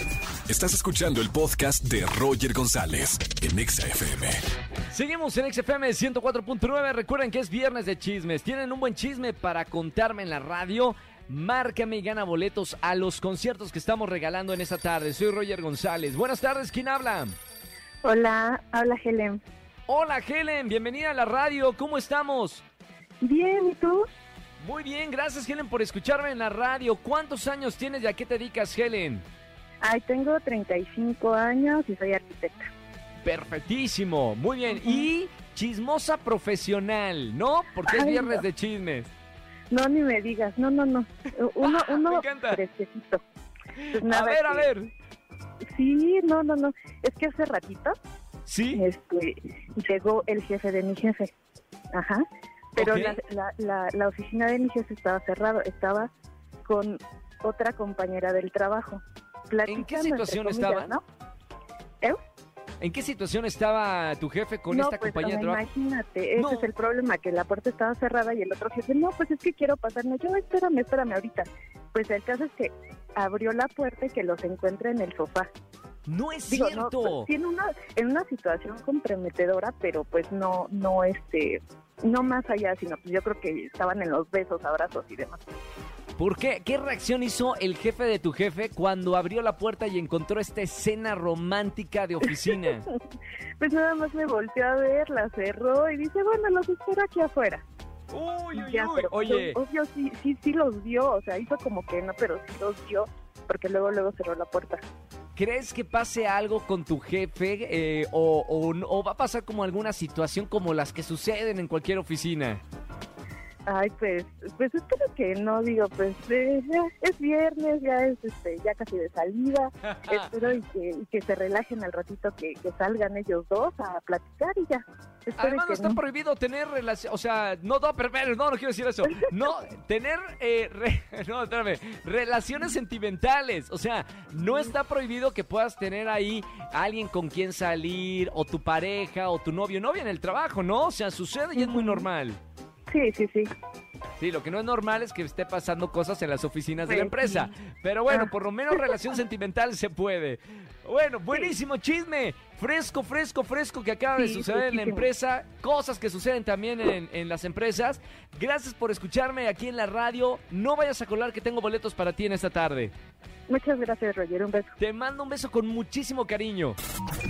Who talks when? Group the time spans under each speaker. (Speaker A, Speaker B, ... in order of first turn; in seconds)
Speaker A: 0.5-4.4
Speaker B: 4.9-17.3, 19.9-22.6, 24.6-29.2, 33.2-39.1, 41.6-42.6, 43.8-44.9, 48.5-48.8, 52.8-53.2, 59.7-61.0, 62.8-65.7, 66.3-66.7, 76.0-77.3, 86.2-92.8, 98.1-99.6, 105.3-112.6, 120.0-120.3, 125.3-142.4, 144.2-162.9, 164.8-166.8
Speaker C: 18.0-19.4, 23.2-24.1, 29.8-32.7, 34.7-35.0, 37.8-38.5, 39.7-43.2, 43.9-44.7, 45.7-47.9, 48.7-51.3, 51.9-52.2, 52.8-56.1, 56.6-61.0, 64.7-75.5, 76.5-85.4, 92.3-93.0, 93.6-97.6, 98.5-104.8, 113.7-126.0, 141.5-142.1, 142.9-143.5, 146.8-147.5, 148.1-149.1, 154.1-155.1, 163.5-164.7